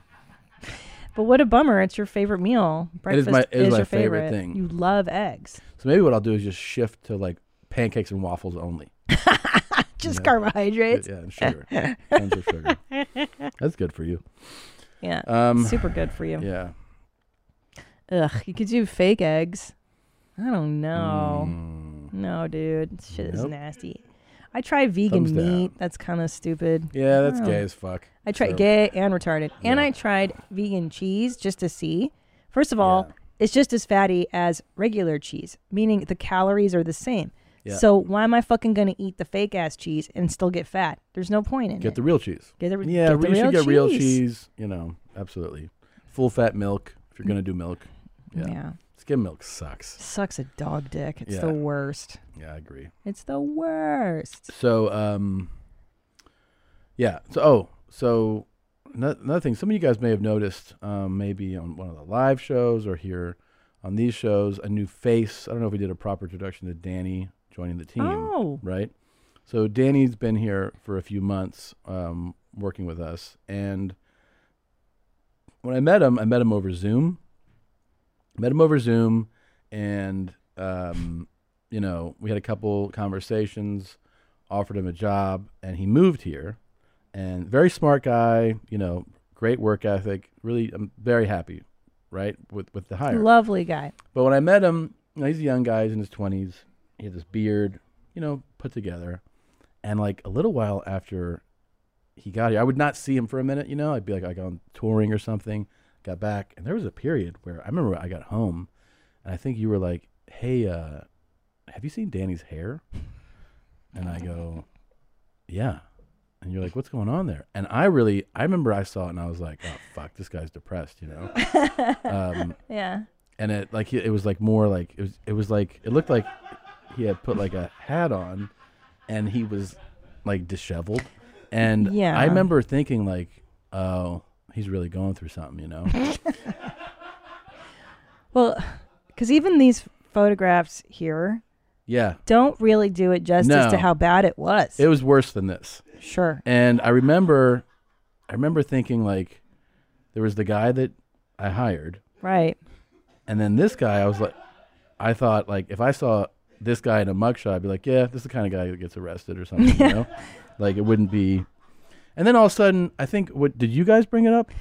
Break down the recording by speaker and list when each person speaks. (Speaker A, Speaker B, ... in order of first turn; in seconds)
Speaker A: 1.1-5.6, 9.1-12.7, 15.0-16.4, 18.1-19.7, 20.4-21.6, 22.1-27.6, 28.2-42.0, 42.6-44.2, 48.3-48.8, 50.0-52.2, 53.0-54.5, 68.0-68.6, 93.1-93.9, 121.3-123.0, 131.8-132.5, 138.3-141.4, 142.2-144.8, 146.0-146.4, 152.2-152.6, 159.6-160.0
Speaker B: 3.1-4.6, 5.8-8.9, 10.0-10.3, 10.9-12.8, 13.6-14.2, 15.2-16.7, 20.9-22.1, 23.1-23.5, 25.1-25.7, 26.9-28.6, 29.6-29.9, 32.8-33.1, 41.8-50.0, 51.2-51.5, 52.3-52.9, 54.5-55.5, 57.0-68.9, 69.5-74.0, 75.6-77.2, 78.4-84.0, 84.5-86.6, 87.1-93.3, 94.1-99.2, 99.8-101.4, 102.2-108.7, 109.2-111.0, 111.7-112.8, 113.9-114.6, 115.5-115.8, 116.4-121.3, 122.1-122.5, 123.4-126.3, 126.9-128.5, 129.1-135.9, 141.9-142.2, 143.4-143.9, 144.8-145.8, 146.4-147.6, 148.3-149.4, 150.1-152.0, 153.3-154.3, 155.0-161.4, 162.2-164.5